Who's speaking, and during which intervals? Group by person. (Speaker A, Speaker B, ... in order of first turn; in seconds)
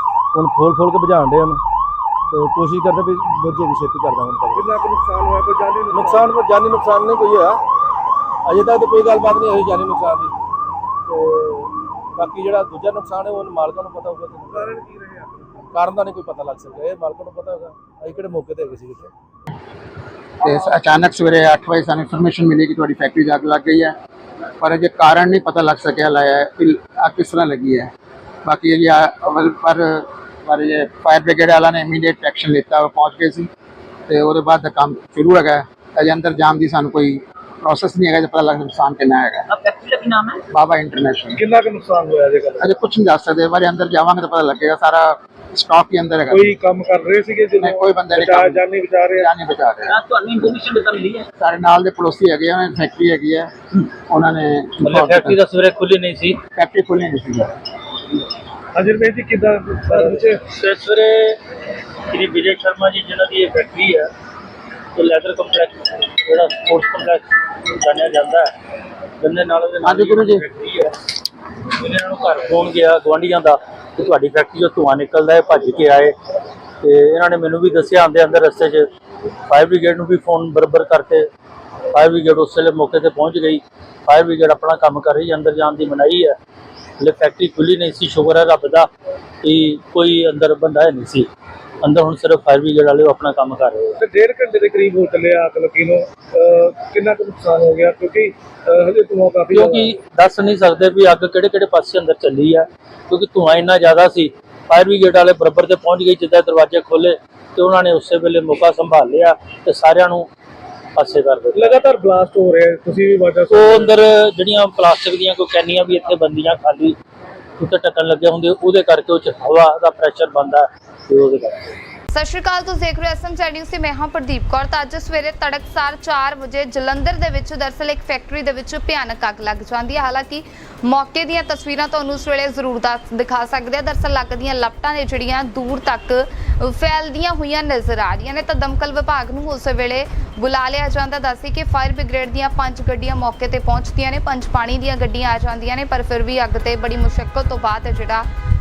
Speaker A: 0.3-1.6, 2.3-4.7, 5.9-7.6, 8.4-10.3, 11.1-14.7, 15.7-19.1
Speaker B: 4.5-6.2, 14.5-15.6, 41.4-42.7, 46.3-49.3, 58.7-60.4, 94.0-99.9, 111.5-113.9
Speaker C: 20.4-23.9, 24.6-27.9, 28.4-33.5, 34.1-39.5, 40.5-41.4, 42.6-46.5, 47.6-50.0, 51.4-55.4, 56.6-57.5, 69.8-70.4
Speaker D: 39.5-40.4, 49.9-51.3
Speaker E: 54.8-56.4, 59.9-61.4, 62.1-64.1, 65.0-68.5, 69.2-71.0, 71.8-76.2, 76.8-78.9, 79.5-81.3, 81.9-86.4, 87.0-88.9, 89.4-91.3, 91.8-94.0, 99.5-110.3, 111.0-111.7, 113.5-117.0, 117.6-121.7
Speaker F: 122.1-148.3